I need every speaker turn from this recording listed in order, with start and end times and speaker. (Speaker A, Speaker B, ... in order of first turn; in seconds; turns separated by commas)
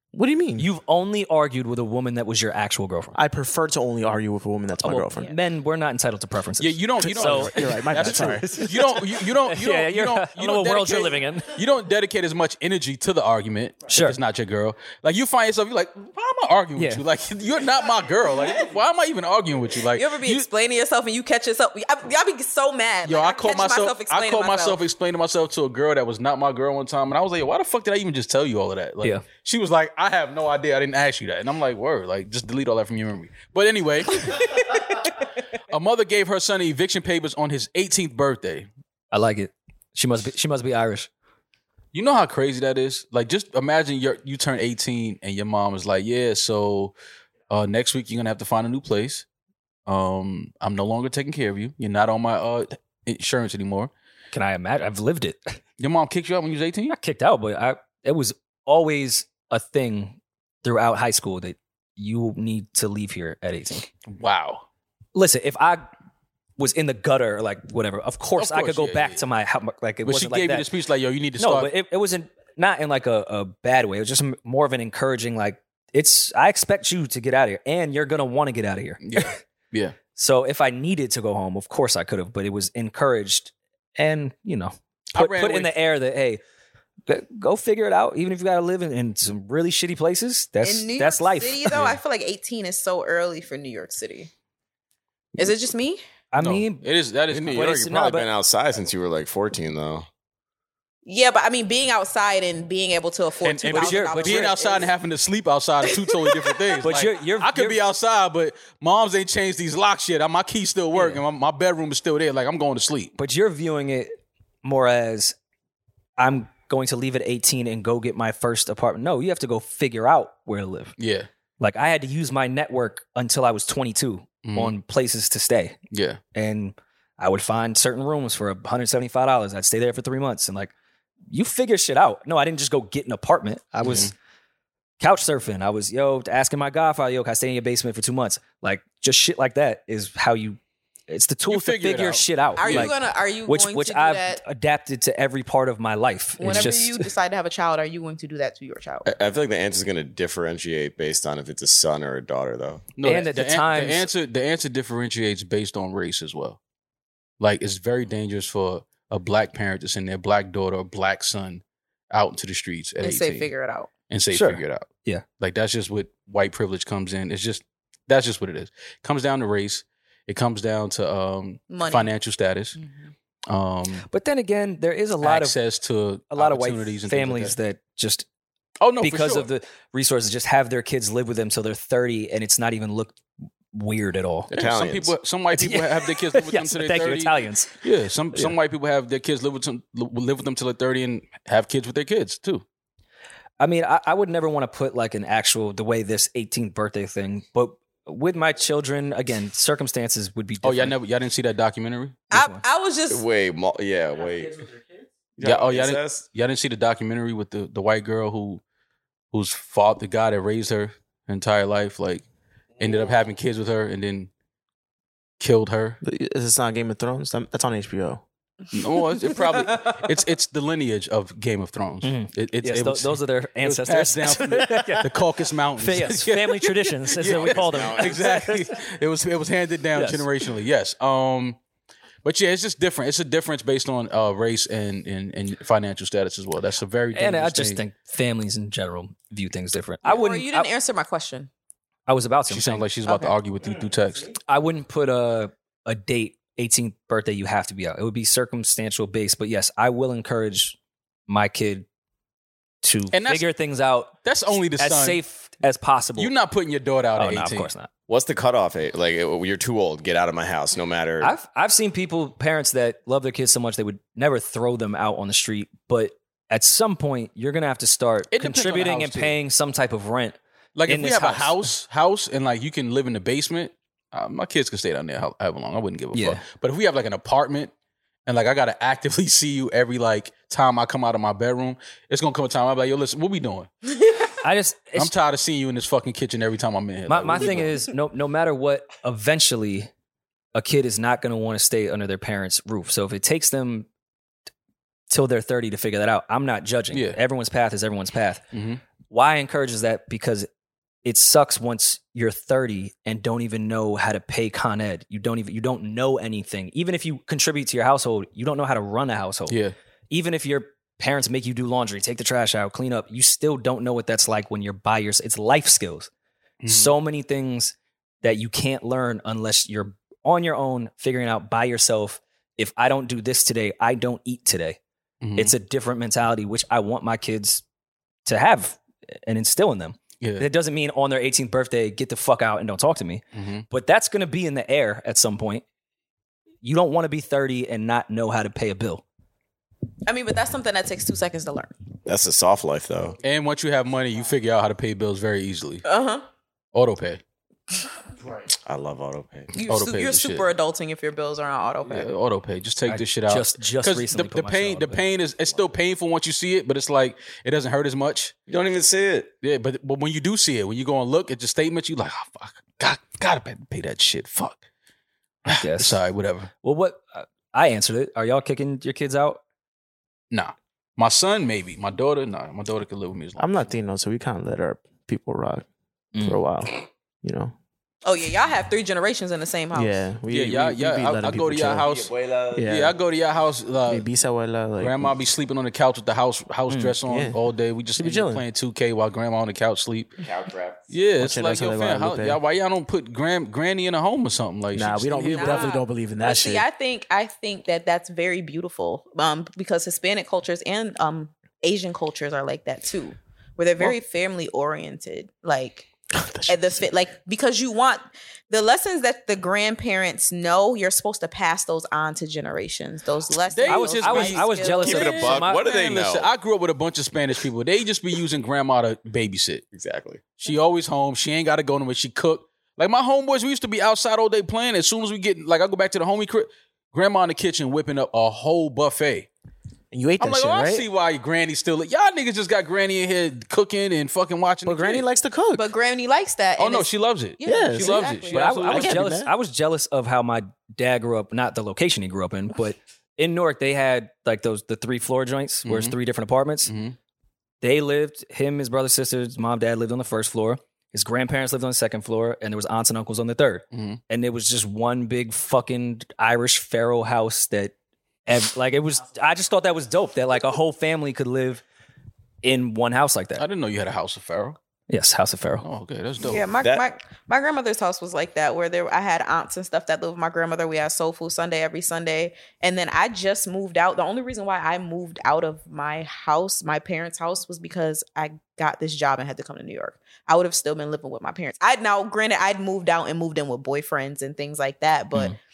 Speaker A: 0.1-0.7, Speaker B: 0.6-3.2, Speaker A: 3.1-5.3, Speaker B: 4.8-11.5, Speaker C: 6.6-20.5, Speaker A: 7.0-8.6, Speaker B: 13.9-14.2, Speaker B: 16.8-17.0, Speaker D: 19.9-24.8, Speaker C: 23.0-34.7, Speaker C: 35.7-38.7, Speaker B: 39.1-41.1, Speaker C: 41.9-46.9, Speaker C: 47.5-49.2, Speaker C: 49.9-53.9, Speaker B: 54.3-55.6, Speaker C: 55.8-57.0, Speaker B: 56.9-63.9, Speaker C: 64.0-64.7, Speaker B: 65.1-65.9, Speaker B: 66.6-70.7, Speaker C: 68.4-69.2, Speaker C: 70.0-71.7, Speaker B: 71.4-79.4, Speaker C: 79.0-80.0, Speaker B: 80.1-86.4, Speaker C: 85.1-85.7, Speaker B: 87.1-91.8, Speaker D: 90.6-94.3, Speaker D: 95.3-96.0, Speaker B: 96.3-96.8, Speaker C: 96.4-97.7, Speaker E: 97.3-100.1, Speaker B: 97.5-98.3, Speaker D: 101.0-104.9, Speaker C: 103.4-113.1, Speaker B: 103.7-104.5, Speaker D: 105.8-106.7, Speaker B: 106.8-107.8, Speaker B: 110.9-111.2, Speaker B: 113.2-115.3, Speaker B: 116.2-121.0, Speaker C: 121.0-121.3, Speaker B: 121.6-125.8, Speaker C: 124.4-124.7, Speaker C: 125.9-126.2, Speaker B: 126.3-130.7, Speaker B: 131.3-134.1, Speaker C: 133.8-134.1, Speaker B: 135.0-140.6, Speaker B: 141.1-142.9, Speaker C: 141.5-142.9, Speaker D: 142.6-144.4, Speaker B: 143.4-147.1, Speaker D: 146.4-149.1, Speaker C: 146.4-146.7, Speaker E: 149.0-152.9, Speaker C: 152.9-156.6, Speaker B: 153.0-154.1, Speaker C: 157.4-163.5, Speaker D: 163.0-163.9, Speaker C: 164.1-172.8, Speaker B: 164.3-165.2, Speaker D: 171.7-172.1, Speaker D: 172.8-173.1, Speaker C: 173.5-174.1, Speaker B: 174.1-175.6, Speaker C: 175.2-177.6, Speaker B: 176.3-178.2, Speaker C: 178.8-179.5, Speaker B: 179.0-184.5, Speaker E: 184.5-185.1, Speaker C: 184.5-192.6, Speaker B: 185.5-187.8, Speaker B: 193.6-200.9, Speaker C: 200.6-202.2, Speaker B: 202.3-202.6, Speaker D: 202.3-203.2, Speaker E: 203.1-204.7, Speaker E: 205.4-206.2, Speaker C: 205.4-208.6, Speaker C: 209.3-212.2, Speaker C: 212.8-214.3, Speaker C: 215.4-216.0, Speaker A: 216.0-218.2, Speaker C: 218.7-231.6, Speaker B: 222.0-225.1, Speaker B: 225.8-228.6, Speaker E: 227.2-228.5, Speaker B: 229.9-230.3, Speaker C: 232.2-237.8, Speaker B: 237.1-240.7, Speaker D: 240.0-241.5, Speaker B: 242.1-243.2, Speaker C: 242.5-244.3, Speaker B: 244.5-250.8, Speaker B: 251.3-251.8, Speaker B: 252.8-254.1, Speaker C: 253.1-253.5, Speaker C: 254.2-255.2, Speaker B: 254.8-256.3, Speaker C: 256.2-257.7, Speaker B: 257.1-257.9, Speaker E: 258.1-261.3, Speaker B: 261.2-271.7, Speaker C: 268.3-269.4, Speaker C: 270.8-277.7, Speaker B: 276.1-276.4, Speaker C: 278.2-283.7, Speaker B: 284.4-285.1, Speaker C: 284.9-287.8, Speaker B: 287.1-289.9, Speaker B: 290.5-293.9, Speaker B: 295.1-298.4, Speaker C: 296.9-297.2, Speaker C: 298.5-298.8, Speaker B: 299.1-300.5, Speaker B: 301.0-309.6, Speaker C: 309.5-309.7, Speaker B: 310.1-316.1, Speaker C: 316.6-316.9, Speaker B: 316.6-324.8, Speaker C: 325.2-325.5, Speaker B: 325.3-327.6, Speaker B: 328.2-335.6, Speaker C: 330.2-330.4, Speaker C: 333.3-333.6, Speaker B: 336.6-339.0, Speaker D: 340.1-341.8, Speaker E: 342.1-343.2, Speaker C: 343.2-345.8, Speaker D: 345.8-346.2, Speaker C: 346.7-347.2, Speaker E: 348.6-349.5, Speaker D: 349.5-352.1, Speaker C: 349.7-350.5, Speaker C: 351.9-358.4, Speaker B: 352.9-355.0, Speaker E: 358.5-359.3, Speaker C: 359.4-364.6, Speaker B: 365.4-366.0, Speaker C: 365.4-366.5, Speaker B: 366.6-369.4, Speaker C: 370.3-373.7, Speaker A: 373.4-375.6, Speaker B: 376.1-376.4, Speaker A: 376.2-377.5, Speaker D: 378.0-380.1, Speaker A: 379.7-381.9, Speaker C: 380.3-382.1, Speaker E: 381.8-382.8, Speaker A: 382.5-382.9, Speaker C: 382.7-384.1, Speaker A: 383.9-385.1, Speaker C: 384.8-390.1, Speaker B: 386.7-386.9, Speaker A: 387.0-387.4, Speaker A: 388.0-388.4, Speaker E: 390.2-390.9, Speaker C: 390.9-395.7, Speaker A: 391.2-392.4, Speaker A: 394.7-396.6, Speaker D: 395.3-405.9, Speaker A: 406.1-406.8, Speaker D: 406.5-415.3, Speaker C: 413.5-419.6, Speaker B: 413.7-415.6, Speaker E: 414.8-416.3, Speaker E: 419.7-420.2, Speaker C: 420.4-429.3, Speaker A: 429.9-430.9, Speaker C: 430.2-435.1, Speaker A: 434.6-435.7, Speaker D: 435.5-438.6, Speaker C: 436.6-439.1, Speaker A: 437.4-439.3, Speaker B: 438.3-446.7, Speaker C: 445.6-445.9, Speaker C: 446.6-446.9, Speaker B: 447.6-457.7, Speaker C: 453.7-454.0, Speaker B: 458.2-461.6, Speaker B: 462.4-463.4, Speaker C: 463.4-464.6, Speaker B: 464.9-465.6, Speaker C: 465.6-466.4, Speaker D: 466.2-485.3, Speaker E: 466.6-466.9